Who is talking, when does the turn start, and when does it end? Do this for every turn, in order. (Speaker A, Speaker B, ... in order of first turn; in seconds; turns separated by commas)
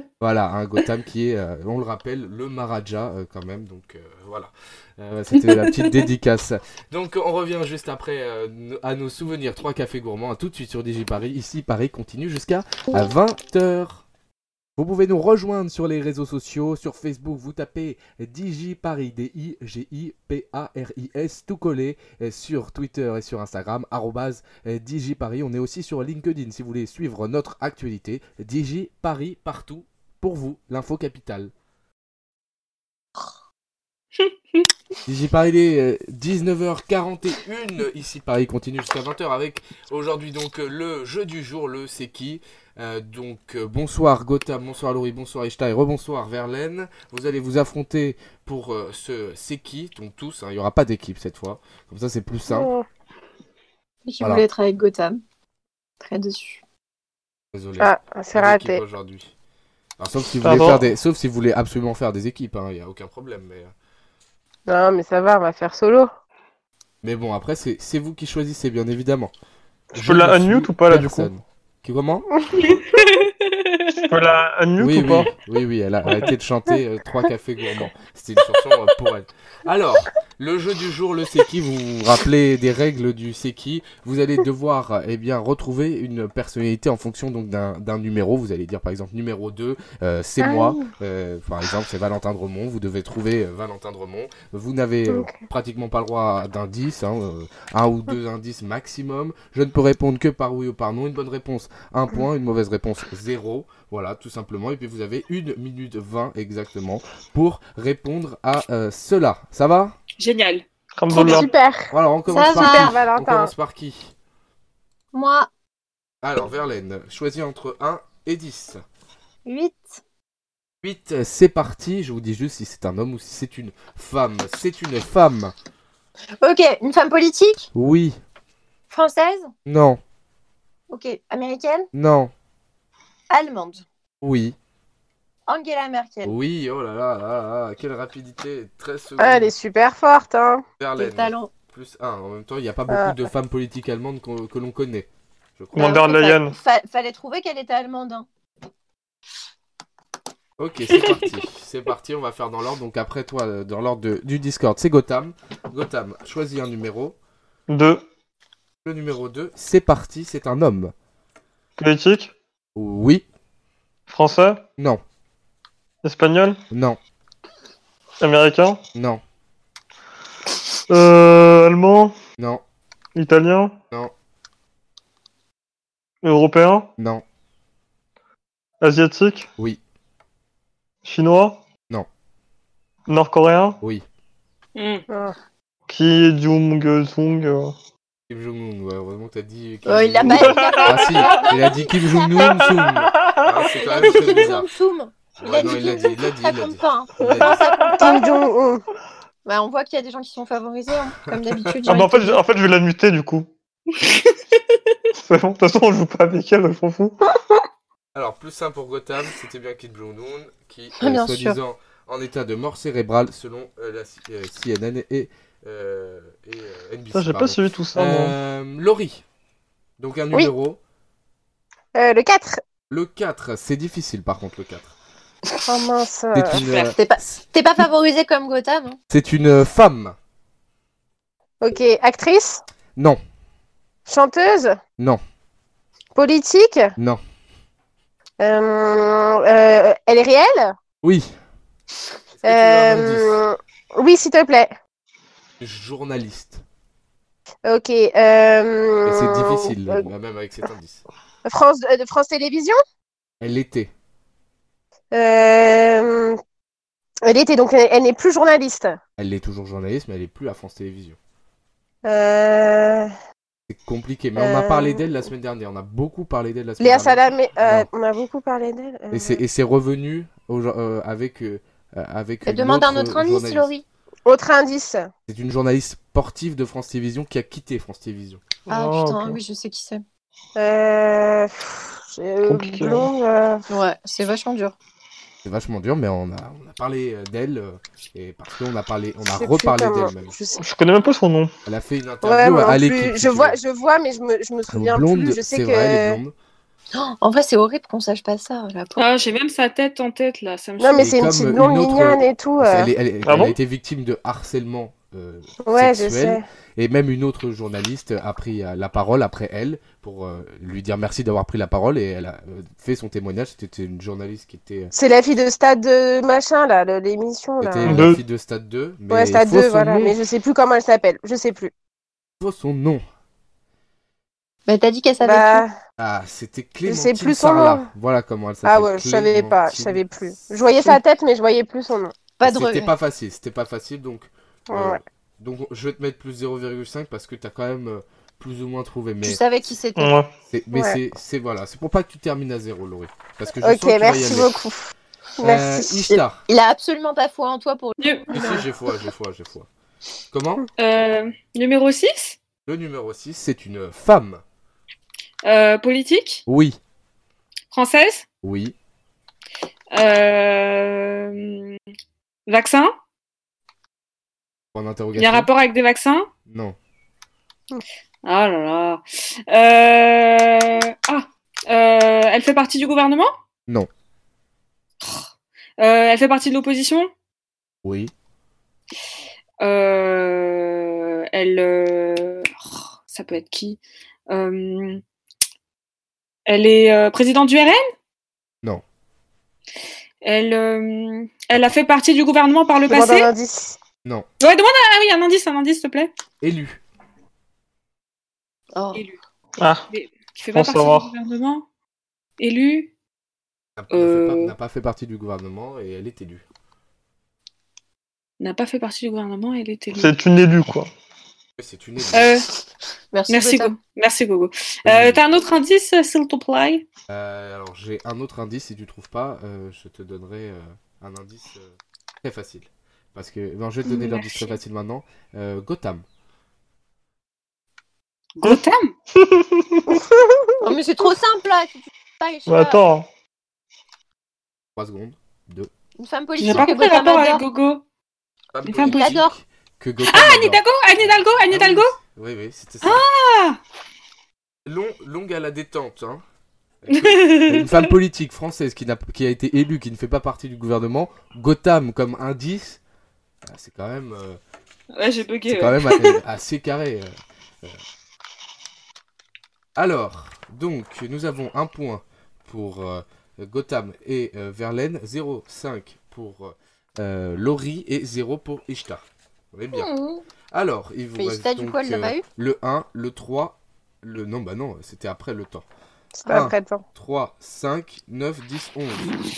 Speaker A: 0.2-14.0, Speaker B: 5.4-6.0, Speaker A: 14.8-31.5, Speaker A: 35.0-52.7, Speaker C: 52.5-52.9, Speaker D: 54.1-55.2, Speaker D: 56.0-56.6, Speaker A: 57.5-59.3, Speaker C: 57.8-58.8, Speaker A: 60.0-63.7, Speaker E: 60.4-60.9, Speaker C: 64.7-66.1, Speaker A: 67.0-69.3, Speaker E: 69.9-71.3, Speaker A: 69.9-72.2, Speaker B: 72.5-74.1, Speaker E: 74.1-75.3, Speaker A: 74.8-110.0, Speaker C: 90.4-90.9, Speaker C: 95.1-95.3, Speaker B: 110.2-110.6, Speaker E: 111.0-111.5, Speaker C: 111.1-113.5, Speaker A: 111.9-114.1, Speaker D: 112.3-113.0, Speaker D: 115.1-115.5, Speaker A: 116.2-118.8, Speaker D: 119.5-120.0, Speaker A: 120.8-125.5, Speaker D: 126.4-127.7, Speaker A: 127.7-128.2, Speaker D: 128.9-129.5, Speaker A: 129.7-130.0, Speaker D: 130.9-131.9, Speaker A: 131.9-132.3, Speaker D: 133.3-133.8, Speaker A: 134.2-134.6, Speaker D: 135.5-136.3, Speaker A: 136.2-139.5, Speaker C: 139.2-140.6, Speaker A: 140.8-145.9, Speaker D: 141.0-141.5, Speaker C: 142.9-143.2, Speaker E: 145.7-146.5, Speaker D: 145.8-148.3, Speaker A: 150.6-157.2, Speaker E: 157.7-158.0, Speaker A: 158.8-160.9, Speaker E: 161.8-162.3, Speaker A: 162.8-163.2, Speaker E: 164.1-164.6, Speaker E: 166.0-166.6, Speaker A: 166.7-167.0, Speaker E: 168.2-168.8, Speaker A: 168.9-169.2, Speaker E: 170.9-172.1, Speaker E: 173.1-173.8, Speaker E: 176.2-176.9, Speaker A: 177.0-177.2, Speaker E: 178.8-179.5, Speaker E: 181.0-181.6, Speaker E: 183.1-183.8, Speaker B: 184.8-185.0, Speaker C: 185.1-185.3, Speaker E: 185.9-187.7, Speaker A: 188.3-194.7, Speaker D: 189.8-192.6, Speaker E: 190.4-190.8, Speaker E: 193.1-193.4, Speaker D: 193.6-198.4, Speaker A: 195.4-197.6, Speaker C: 197.9-198.8, Speaker D: 199.4-202.4, Speaker E: 201.8-203.5, Speaker B: 204.0-204.3, Speaker E: 205.1-207.2, Speaker A: 208.1-219.2, Speaker D: 211.0-211.6, Speaker E: 217.1-218.3, Speaker A: 220.0-220.8, Speaker C: 221.9-222.6, Speaker A: 222.9-224.9, Speaker C: 225.7-226.6, Speaker A: 226.3-227.0, Speaker B: 226.5-226.9, Speaker D: 226.9-229.0, Speaker A: 229.1-230.2, Speaker C: 231.6-232.6, Speaker C: 234.1-234.8, Speaker C: 236.1-236.9, Speaker C: 238.4-240.7, Speaker A: 241.0-241.3, Speaker A: 242.3-243.4, Speaker C: 242.4-244.8, Speaker A: 245.6-246.6, Speaker C: 247.6-250.1, Speaker A: 249.0-251.0, Speaker C: 251.4-252.8, Speaker A: 253.4-253.9, Speaker C: 255.1-256.4, Speaker C: 257.2-259.0, Speaker A: 259.2-261.2, Speaker C: 262.0-263.1, Speaker A: 263.7-267.9, Speaker C: 264.4-265.0, Speaker C: 266.8-269.4, Speaker A: 269.1-273.7, Speaker D: 272.4-273.8, Speaker C: 274.2-275.1, Speaker A: 275.3-278.4, Speaker E: 278.7-279.4, Speaker D: 278.7-280.0, Speaker C: 280.6-283.6, Speaker E: 282.4-283.1, Speaker D: 283.7-284.7, Speaker A: 285.4-290.3, Speaker C: 289.3-290.6, Speaker E: 290.6-291.5, Speaker A: 291.6-293.6, Speaker C: 292.2-296.2, Speaker A: 294.7-296.3, Speaker D: 296.9-299.0, Speaker B: 299.0-301.1, Speaker C: 300.8-302.9, Speaker A: 301.0-314.9, Speaker E: 303.2-303.6, Speaker C: 305.6-306.4, Speaker C: 314.9-318.1, Speaker A: 317.6-320.1, Speaker E: 317.8-318.2, Speaker C: 319.1-321.7, Speaker A: 322.4-323.0, Speaker D: 324.7-325.6, Speaker C: 325.2-325.7, Speaker A: 326.0-330.4, Speaker C: 326.9-327.9, Speaker C: 328.6-332.1, Speaker D: 332.4-332.9, Speaker A: 332.4-339.4, Speaker C: 334.7-335.0, Speaker D: 339.2-340.1, Speaker E: 339.9-340.3, Speaker A: 340.5-344.5, Speaker C: 340.7-341.0, Speaker C: 343.6-346.0, Speaker A: 345.4-346.4, Speaker D: 346.1-348.6, Speaker B: 348.0-348.3, Speaker A: 348.3-349.7, Speaker A: 350.3-350.6, Speaker B: 350.8-352.4, Speaker A: 352.6-354.4, Speaker B: 355.4-356.4, Speaker A: 356.5-356.8, Speaker B: 357.7-358.2, Speaker A: 358.4-358.7, Speaker B: 359.9-361.8, Speaker B: 362.5-362.9, Speaker A: 364.7-365.5, Speaker B: 365.1-366.3, Speaker A: 366.5-366.8, Speaker B: 368.2-373.3, Speaker B: 375.0-375.3, Speaker B: 375.8-377.1, Speaker A: 377.8-378.1, Speaker B: 379.6-385.0, Speaker B: 386.5-387.9, Speaker B: 390.2-393.3, Speaker C: 392.9-393.8, Speaker B: 394.4-396.1, Speaker A: 396.4-396.8, Speaker D: 398.7-399.0, Speaker B: 398.9-399.2, Speaker E: 399.6-399.9, Speaker B: 399.9-401.6, Speaker E: 400.5-401.1, Speaker B: 402.4-402.9, Speaker A: 403.8-406.4, Speaker B: 403.9-404.5, Speaker B: 408.4-410.1, Speaker E: 409.9-410.9, Speaker A: 411.6-412.3, Speaker B: 412.1-412.5, Speaker D: 413.1-413.7, Speaker B: 413.3-416.9, Speaker A: 414.8-415.4, Speaker A: 417.1-426.0, Speaker B: 423.9-424.6, Speaker B: 428.4-428.9, Speaker E: 428.4-430.0, Speaker C: 429.9-430.6, Speaker D: 430.6-432.9, Speaker E: 432.5-433.1, Speaker A: 434.8-435.7, Speaker D: 436.0-437.4, Speaker B: 436.4-437.8, Speaker A: 438.5-443.0, Speaker B: 438.6-439.2, Speaker D: 438.8-439.3, Speaker B: 440.0-441.9, Speaker B: 442.8-443.6, Speaker A: 444.6-446.2, Speaker A: 446.8-452.8, Speaker B: 446.9-447.9, Speaker A: 453.4-454.4, Speaker B: 454.9-456.2, Speaker A: 455.5-457.8, Speaker A: 459.8-469.9, Speaker A: 470.5-475.6, Speaker D: 471.2-472.2, Speaker C: 476.2-476.8, Speaker A: 476.2-479.1